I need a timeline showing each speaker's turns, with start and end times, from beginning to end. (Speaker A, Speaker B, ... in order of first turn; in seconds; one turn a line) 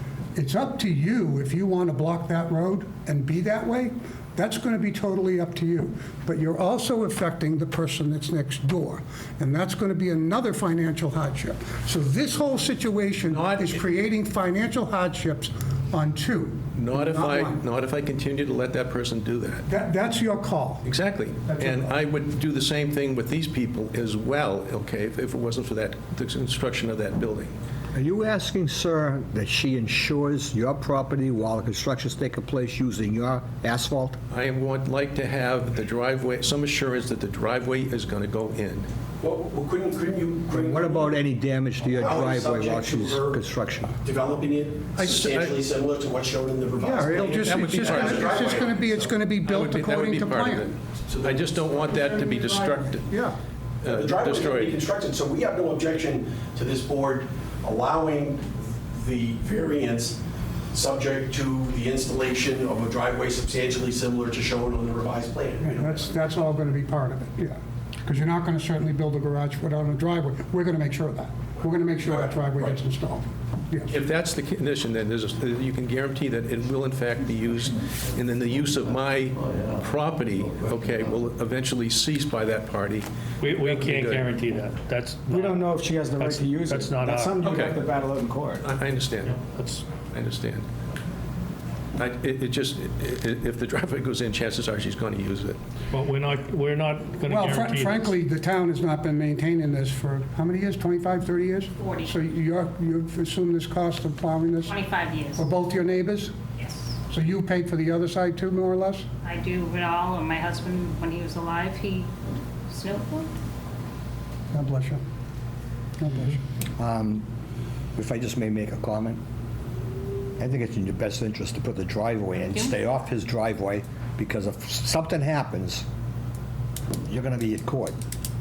Speaker A: 0.3-17.6
Speaker B: 13.2-13.9
Speaker B: 16.7-19.7
Speaker A: 19.7-20.9
Speaker B: 20.8-27.5
Speaker A: 21.5-21.9
Speaker C: 27.9-34.2
Speaker B: 34.3-38.9
Speaker D: 39.2-41.2
Speaker C: 40.5-43.9
Speaker D: 42.0-43.4
Speaker D: 44.0-49.2
Speaker B: 45.0-45.6
Speaker A: 45.0-45.5
Speaker A: 46.7-50.7
Speaker B: 47.3-48.6
Speaker B: 49.4-53.1
Speaker D: 51.1-51.9
Speaker A: 51.4-53.4
Speaker B: 53.8-54.8
Speaker D: 53.8-60.2
Speaker D: 60.7-66.2
Speaker A: 65.6-73.9
Speaker D: 72.0-72.8
Speaker B: 73.9-84.3
Speaker E: 83.4-87.5
Speaker F: 85.3-88.7
Speaker B: 87.4-87.9
Speaker B: 88.6-89.4
Speaker E: 89.2-89.9
Speaker B: 89.9-90.7
Speaker B: 92.0-95.6
Speaker E: 95.9-98.1
Speaker A: 97.3-104.7
Speaker G: 101.8-102.1
Speaker G: 104.7-105.5
Speaker A: 105.3-106.3
Speaker G: 106.6-106.8
Speaker A: 107.1-109.1
Speaker G: 109.2-112.1
Speaker G: 112.7-113.3
Speaker A: 114.5-115.0
Speaker A: 116.0-116.4
Speaker C: 116.8-117.2
Speaker C: 118.0-119.2
Speaker C: 120.4-125.8
Speaker G: 122.5-122.7
Speaker C: 127.0-128.0